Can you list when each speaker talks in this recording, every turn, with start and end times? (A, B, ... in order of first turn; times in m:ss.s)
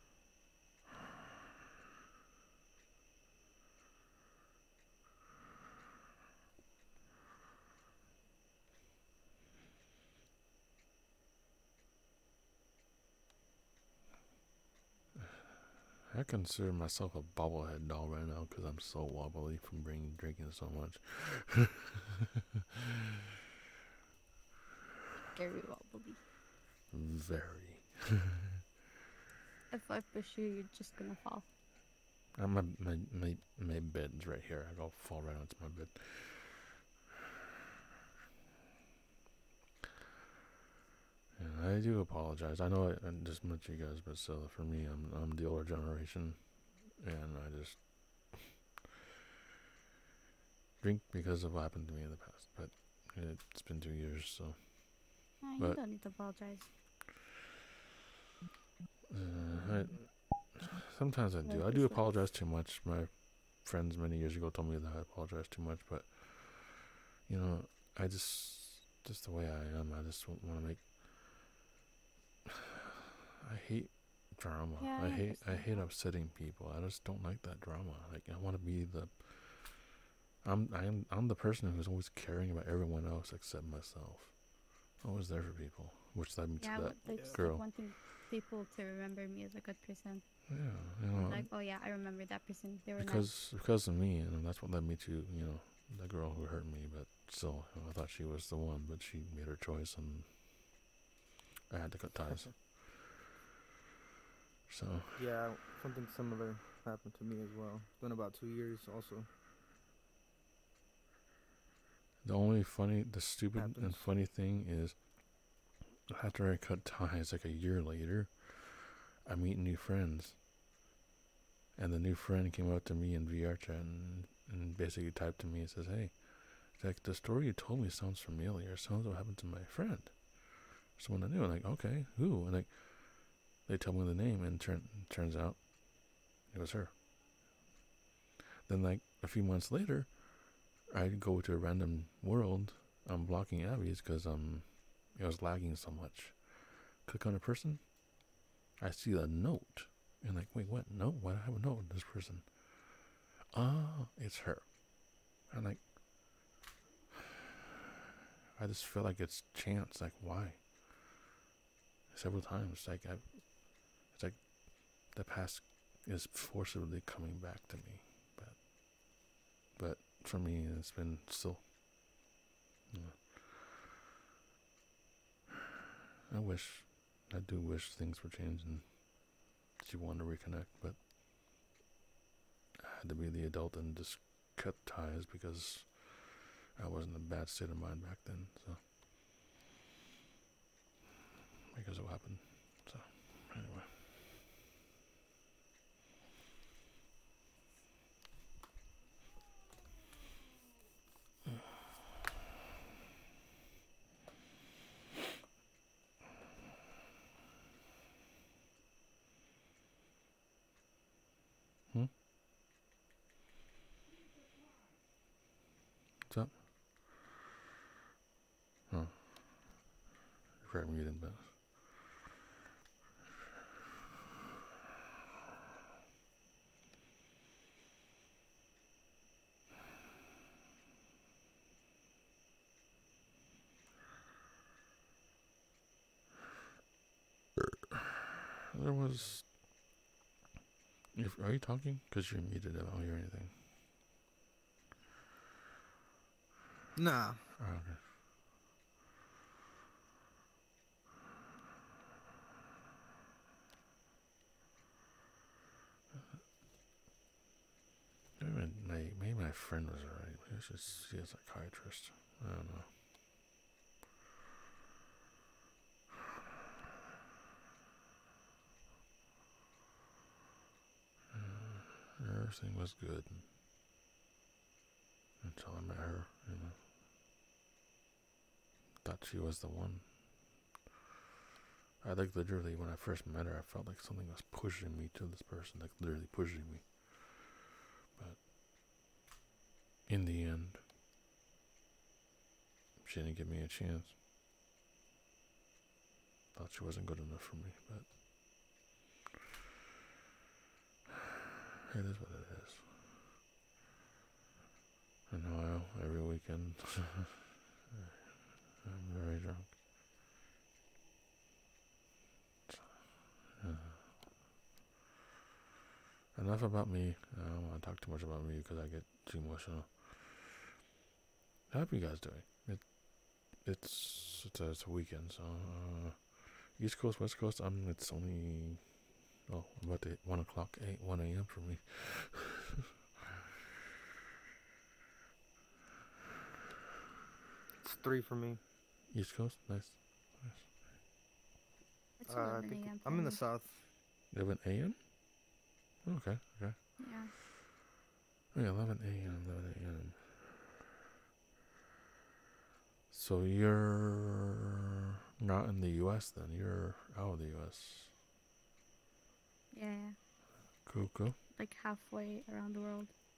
0:15.1-0:22.1 A
0:22.8-0:23.3 A
0:25.3-0:26.2 B
0:26.9-0:28.6 A
0:29.7-0:31.5 B
0:32.3-0:36.8 A
0:41.4-0:48.5 A
0:50.8-0:55.8 A
0:55.4-0:56.7 B
0:59.1-1:10.9 A
1:01.4-1:02.1 B
1:13.4-1:27.6 A
1:14.8-1:15.9 B
1:26.6-1:33.4 B
1:27.1-1:27.4 C
1:30.5-1:31.5 A
1:31.1-1:31.4 C
1:33.0-1:40.4 A
1:41.7-1:42.8 A
1:44.7-1:45.4 A
1:45.2-1:49.3 C
1:52.2-1:55.5 A
1:53.6-1:54.1 C
1:56.1-2:00.4 A
2:01.8-2:17.0 A
2:18.6-2:28.2 A
2:28.8-2:36.4 A
2:38.6-2:41.0 A
2:42.1-2:48.7 A
2:49.8-2:51.7 A
2:52.9-2:53.6 A
2:56.3-3:01.0 A
3:02.8-3:08.8 A
3:11.7-3:14.0 A
3:36.3-3:36.6 A
3:38.9-3:39.9 A
3:40.6-3:41.8 A
3:58.7-3:59.5 A
4:01.1-4:03.5 A
4:07.0-4:07.4 C
4:07.6-4:08.0 A
4:16.1-4:16.4 A
4:18.4-4:22.9 A
4:31.3-4:33.5 A
4:35.4-4:36.8 A
4:39.0-4:40.6 A
4:42.0-4:47.6 A
4:48.2-4:48.4 A
4:50.1-4:50.8 A
4:53.0-4:54.2 A
4:56.5-4:58.2 A
5:01.9-5:02.9 A
5:05.3-5:09.7 A
5:12.7-5:14.2 A
5:16.3-5:20.6 A
5:21.7-5:32.8 A
5:37.8-5:38.6 C
5:39.1-5:40.7 A
5:42.2-5:43.5 B
5:42.3-5:43.9 C
5:44.3-5:45.5 A
5:46.0-5:46.8 A
5:47.0-5:47.3 B
5:48.5-5:50.3 A
5:53.1-5:54.8 A
5:55.4-5:58.2 A
5:59.7-6:00.2 B
6:00.8-6:01.4 A
6:01.6-6:03.1 B